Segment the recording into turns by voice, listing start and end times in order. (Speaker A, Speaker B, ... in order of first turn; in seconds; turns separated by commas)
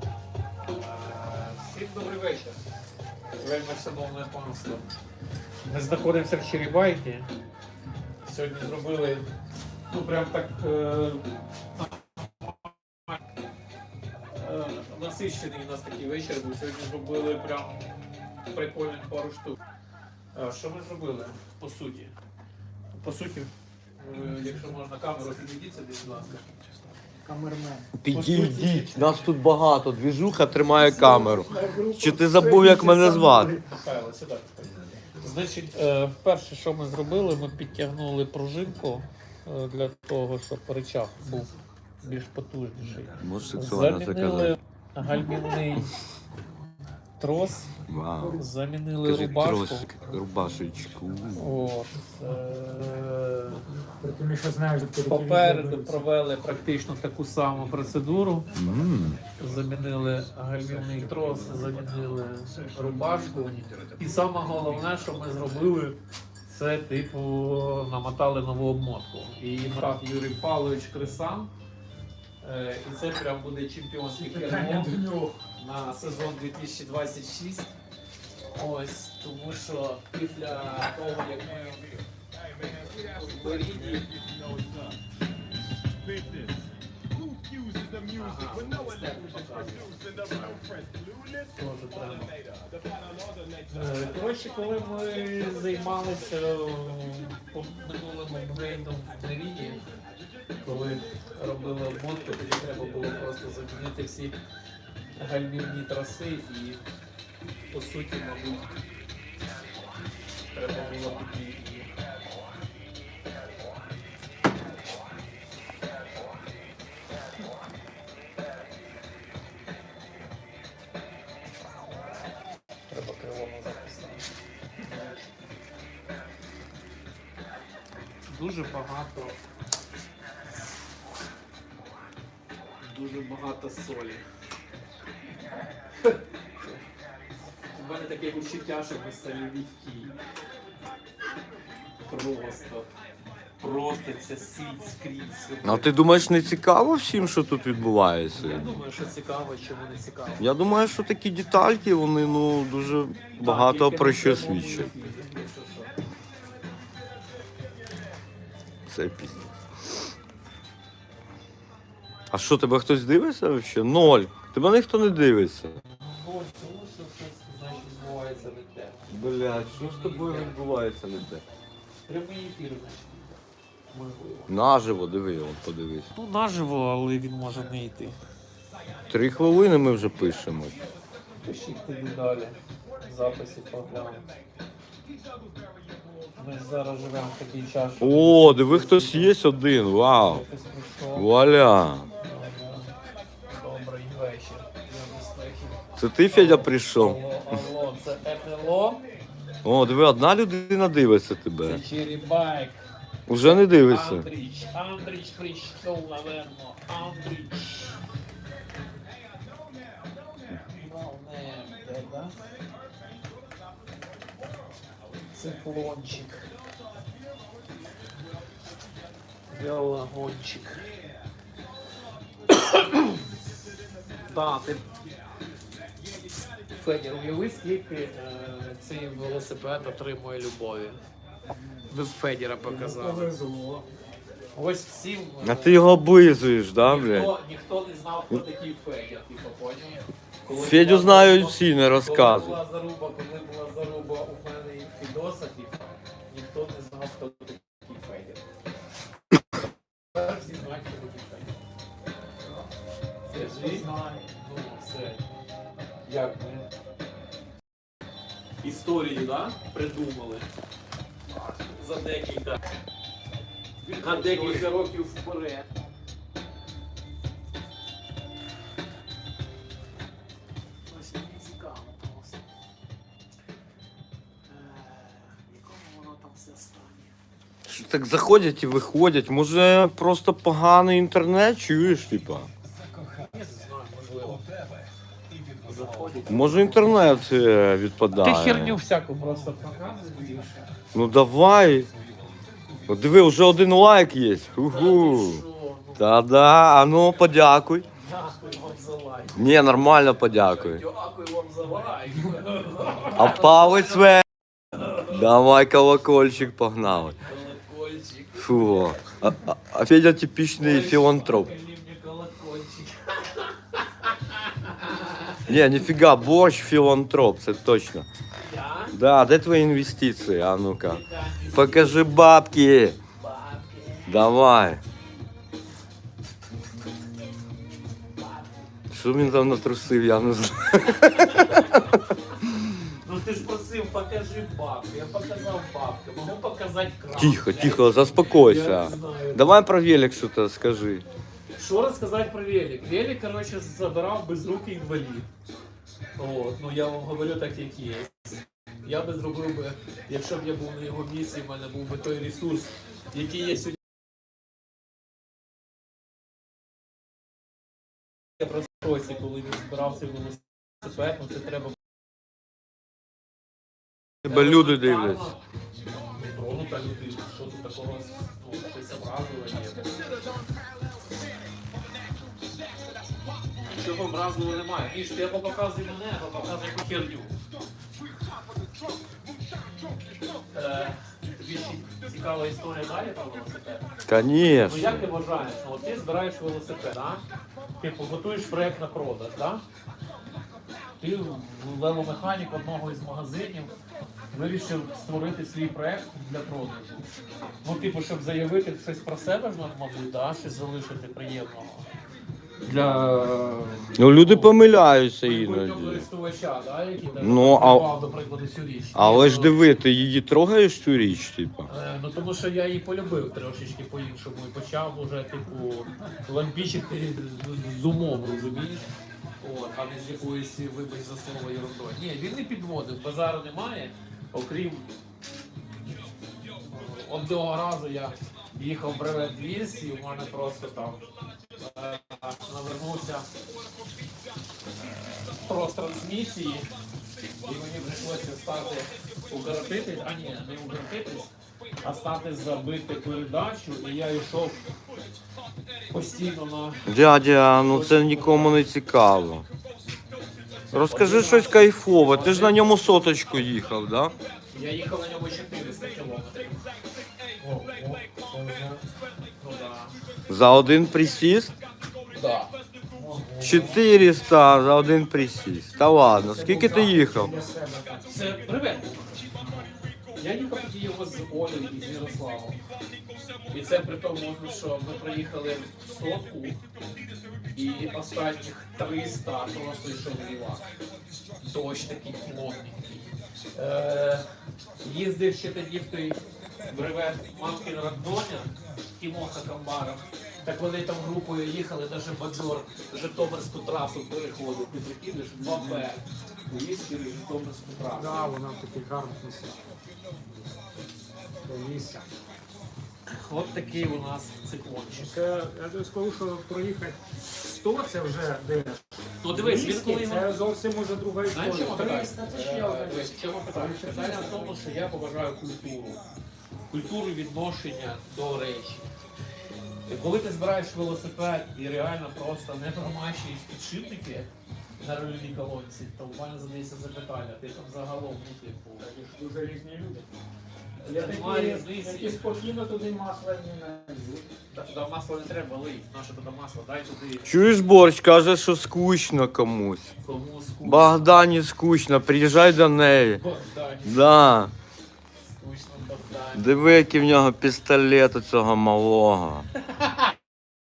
Speaker A: 0.6-2.6, Speaker A: 3.4-4.8, Speaker A: 5.7-7.3, Speaker A: 8.2-9.3, Speaker A: 9.9-11.2, Speaker A: 11.8-12.5, Speaker A: 14.3-19.6, Speaker A: 20.3-22.1, Speaker A: 23.0-26.5, Speaker B: 27.2-27.9, Speaker C: 28.0-33.5, Speaker A: 28.1-29.1, Speaker B: 30.9-33.6, Speaker A: 33.5-45.9, Speaker C: 43.2-44.5, Speaker A: 47.2-49.9, Speaker C: 47.9-48.4, Speaker C: 49.0-51.5, Speaker A: 51.4-53.6, Speaker B: 54.0-56.0, Speaker A: 55.0-58.5, Speaker C: 58.5-59.2, Speaker A: 59.4-71.5, Speaker A: 72.4-74.9, Speaker B: 74.3-75.4, Speaker A: 75.5-77.7, Speaker A: 78.5-81.9, Speaker A: 82.8-84.1, Speaker A: 88.1-90.6, Speaker A: 91.5-92.4, Speaker A: 93.7-99.8, Speaker A: 100.6-104.4, Speaker A: 105.2-106.8, Speaker A: 107.7-108.8, Speaker A: 110.5-111.9, Speaker A: 122.9-124.3, Speaker A: 124.8-125.2, Speaker A: 128.3-129.4, Speaker A: 132.8-134.2, Speaker A: 136.0-136.8, Speaker A: 137.7-140.1, Speaker A: 142.1-142.9, Speaker A: 143.6-145.9, Speaker C: 145.6-148.8, Speaker A: 148.3-150.4, Speaker C: 150.4-154.9, Speaker A: 153.4-155.9, Speaker C: 158.9-159.9, Speaker C: 162.3-165.8, Speaker A: 165.9-170.6, Speaker C: 169.1-171.4, Speaker A: 172.1-173.4, Speaker A: 173.9-174.5, Speaker C: 174.5-176.1, Speaker A: 176.1-178.2, Speaker C: 179.1-180.8, Speaker A: 181.4-184.2, Speaker A: 186.3-189.3, Speaker C: 188.0-190.4, Speaker A: 190.2-191.3, Speaker C: 191.1-192.1, Speaker A: 192.2-192.9, Speaker A: 193.5-199.0, Speaker C: 196.0-197.6, Speaker C: 199.6-201.8, Speaker A: 201.6-202.8, Speaker C: 203.3-204.3, Speaker A: 203.4-208.0, Speaker A: 210.6-212.3, Speaker A: 215.3-216.4, Speaker A: 219.5-220.9, Speaker A: 222.5-223.2, Speaker A: 224.3-224.8, Speaker A: 226.7-231.0, Speaker A: 231.9-233.3, Speaker B: 232.6-233.9, Speaker A: 234.5-235.8, Speaker C: 235.4-237.3, Speaker A: 236.8-248.4, Speaker C: 240.5-242.6, Speaker A: 250.1-251.6, Speaker B: 252.4-252.7, Speaker A: 253.3-255.2, Speaker B: 253.3-254.3, Speaker A: 256.1-256.7, Speaker A: 258.6-260.5, Speaker A: 261.3-262.6, Speaker A: 263.8-265.7, Speaker A: 270.9-272.4, Speaker A: 274.5-277.1, Speaker C: 277.6-282.5, Speaker A: 283.0-284.5, Speaker A: 285.6-287.0, Speaker C: 286.2-288.8, Speaker A: 288.2-290.7, Speaker C: 290.9-291.9, Speaker C: 292.9-295.4, Speaker A: 294.7-296.1, Speaker C: 295.9-297.8, Speaker A: 298.0-299.5, Speaker C: 299.3-300.8, Speaker A: 300.1-304.1, Speaker C: 303.1-304.2, Speaker A: 304.7-305.1, Speaker C: 305.1-307.2, Speaker A: 307.2-309.1, Speaker C: 308.4-311.5, Speaker A: 310.6-315.5, Speaker C: 315.5-318.1, Speaker A: 318.4-318.9, Speaker C: 318.9-321.0, Speaker A: 320.8-322.1, Speaker C: 321.5-323.0, Speaker A: 323.2-324.2, Speaker C: 324.1-324.8, Speaker C: 328.9-331.7, Speaker A: 330.9-332.1, Speaker A: 332.8-339.6, Speaker C: 337.1-341.1, Speaker A: 341.6-345.3, Speaker A: 346.2-353.8, Speaker A: 358.4-361.8, Speaker C: 364.2-365.3, Speaker A: 364.2-370.1, Speaker A: 373.6-377.3, Speaker A: 380.5-383.9, Speaker C: 384.1-385.0, Speaker A: 384.6-387.2, Speaker A: 387.8-389.6, Speaker A: 391.0-393.7, Speaker A: 394.3-397.1, Speaker A: 397.6-401.9, Speaker A: 402.6-404.6, Speaker C: 404.0-406.1, Speaker A: 405.2-409.6, Speaker C: 407.2-407.9, Speaker C: 408.9-411.7, Speaker A: 411.7-418.9, Speaker A: 419.4-424.9, Speaker A: 426.7-433.3, Speaker A: 435.2-436.7, Speaker A: 437.4-444.6, Speaker A: 445.9-446.9, Speaker C: 446.9-449.4, Speaker A: 447.5-448.7, Speaker C: 450.7-454.1, Speaker A: 450.7-452.6, Speaker A: 454.5-456.6, Speaker B: 457.4-458.8, Speaker A: 459.4-459.9, Speaker C: 460.3-461.5, Speaker A: 462.1-462.5, Speaker B: 462.9-463.8, Speaker C: 463.4-467.3, Speaker B: 466.2-468.3, Speaker A: 468.1-469.3, Speaker A: 470.1-472.6, Speaker A: 473.5-476.6, Speaker A: 477.5-480.7, Speaker A: 481.4-484.2, Speaker A: 484.8-498.3, Speaker B: 497.8-499.6, Speaker B: 501.4-502.1, Speaker A: 503.1-505.1, Speaker B: 504.9-514.5, Speaker A: 509.2-510.3, Speaker A: 511.3-516.0, Speaker A: 516.7-518.9, Speaker A: 519.9-524.3, Speaker A: 524.8-528.9, Speaker B: 528.8-530.1, Speaker A: 530.8-532.2, Speaker B: 530.8-534.2, Speaker A: 534.5-537.3, Speaker C: 537.2-539.9, Speaker A: 540.0-541.0, Speaker C: 540.6-543.2, Speaker A: 543.1-544.3, Speaker C: 543.8-544.5, Speaker A: 545.4-546.6, Speaker C: 546.3-549.5, Speaker A: 549.7-550.1